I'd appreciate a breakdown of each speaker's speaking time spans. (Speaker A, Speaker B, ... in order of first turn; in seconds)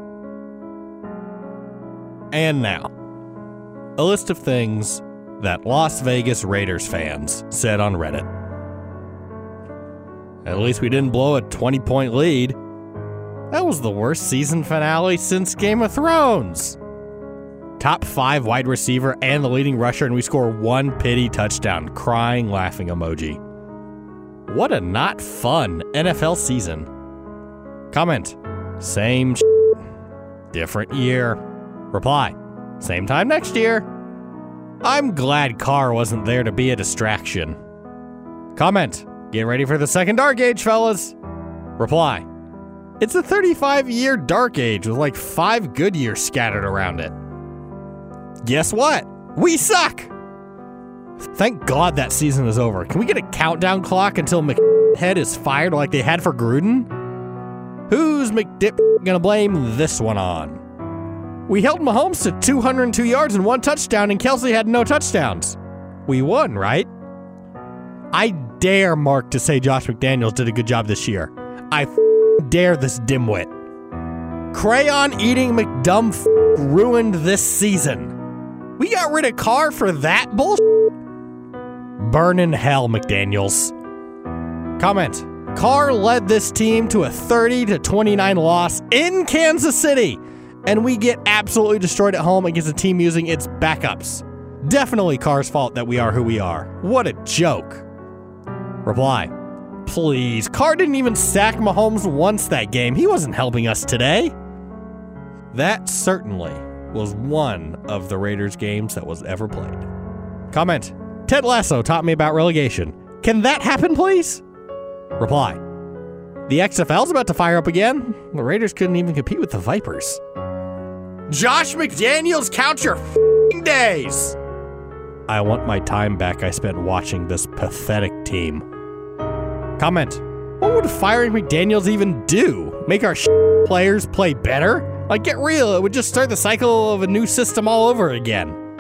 Speaker A: 2.3-2.9, 4.0-8.3, 10.4-12.6, 13.5-16.8, 17.8-23.4, 24.5-26.9, 27.9-29.7, 30.5-31.4, 31.9-33.9, 34.8-37.6, 38.5-41.1, 41.8-42.2, 43.0-47.1, 48.4-50.1, 51.3-56.9, 57.9-60.6, 61.5-66.9, 68.1-73.5, 74.5-78.2, 78.8-80.7, 82.0-83.7, 84.8-97.8, 98.8-99.3, 99.8-104.3, 105.5-109.9, 110.5-114.4, 115.2-115.6, 116.5-120.2, 121.3-124.4, 125.3-128.6, 129.8-138.6